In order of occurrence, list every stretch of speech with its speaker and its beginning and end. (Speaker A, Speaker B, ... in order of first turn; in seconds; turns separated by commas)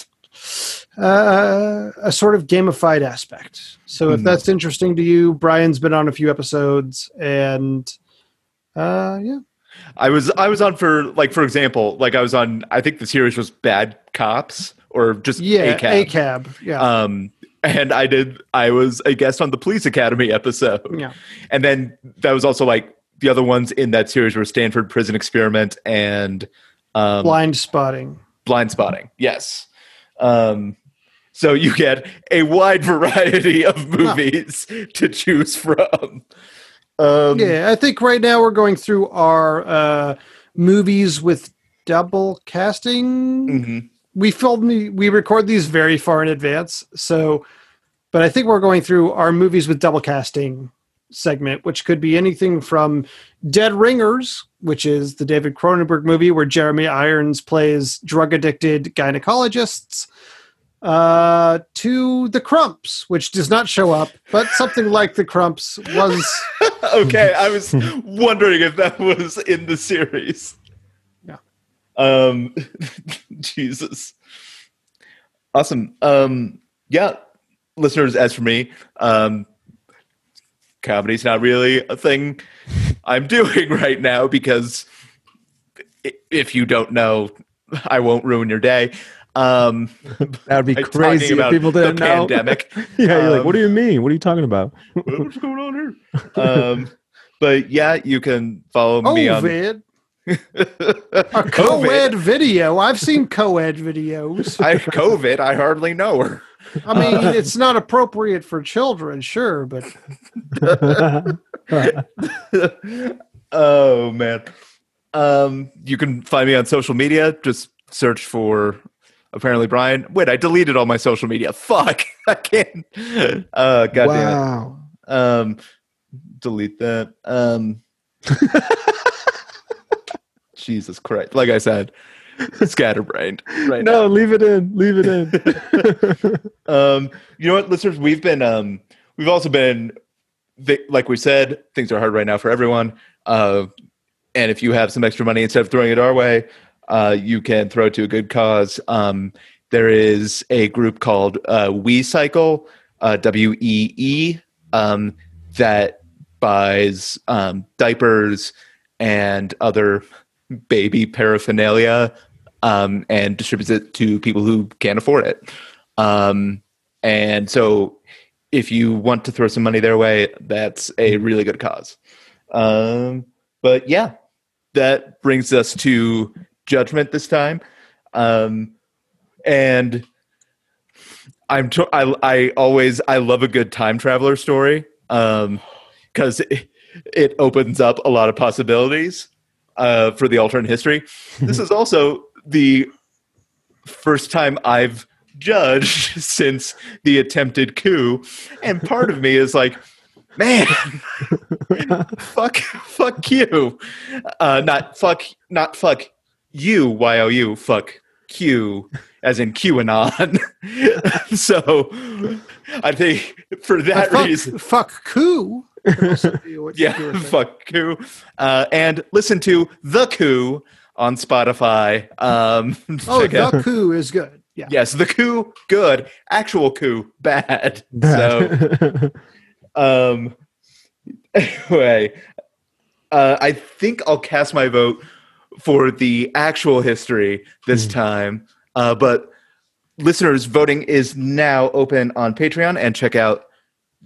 Speaker A: 0.4-7.9, Speaker B: 4.1-4.4, Speaker A: 8.8-9.4, Speaker B: 10.0-16.1, Speaker A: 15.4-16.8, Speaker B: 16.8-21.0, Speaker B: 21.5-27.4, Speaker A: 27.2-28.2, Speaker B: 28.4-29.7, Speaker B: 30.2-30.8, Speaker B: 31.3-36.2, Speaker B: 37.0-37.5, Speaker A: 37.3-43.6, Speaker B: 43.5-43.9, Speaker A: 44.1-47.4, Speaker A: 48.1-60.1, Speaker A: 60.8-66.5, Speaker B: 66.2-70.5, Speaker B: 72.0-74.1, Speaker B: 75.5-77.2, Speaker B: 77.8-79.5, Speaker B: 80.8-82.4, Speaker B: 83.0-84.8, Speaker B: 86.0-93.6, Speaker C: 90.5-95.3, Speaker B: 95.0-99.5, Speaker A: 99.0-99.8, Speaker B: 100.3-102.2, Speaker A: 101.3-104.6, Speaker B: 104.6-107.3, Speaker A: 106.8-109.9, Speaker B: 110.5-114.5, Speaker C: 110.8-112.0, Speaker B: 115.1-118.8, Speaker B: 119.3-124.4, Speaker C: 124.0-124.7, Speaker B: 124.9-125.6, Speaker B: 126.4-127.8, Speaker B: 130.6-134.0, Speaker C: 133.7-136.4, Speaker B: 135.3-135.8, Speaker B: 136.7-139.9, Speaker B: 140.6-143.7, Speaker B: 144.3-160.0, Speaker B: 160.7-162.1, Speaker B: 162.6-165.4, Speaker B: 166.0-168.0, Speaker B: 168.5-171.9, Speaker B: 172.5-174.1, Speaker B: 174.7-177.6, Speaker B: 178.1-178.7, Speaker B: 179.4-180.1, Speaker B: 181.5-185.6, Speaker B: 186.1-192.9, Speaker B: 193.9-199.8, Speaker B: 200.4-214.5, Speaker A: 213.9-217.4, Speaker B: 216.7-223.6, Speaker A: 223.1-224.7, Speaker B: 224.7-228.6, Speaker C: 228.0-229.1, Speaker B: 229.8-230.3, Speaker B: 231.3-232.2, Speaker B: 233.1-235.0, Speaker B: 235.6-239.3, Speaker B: 240.0-243.4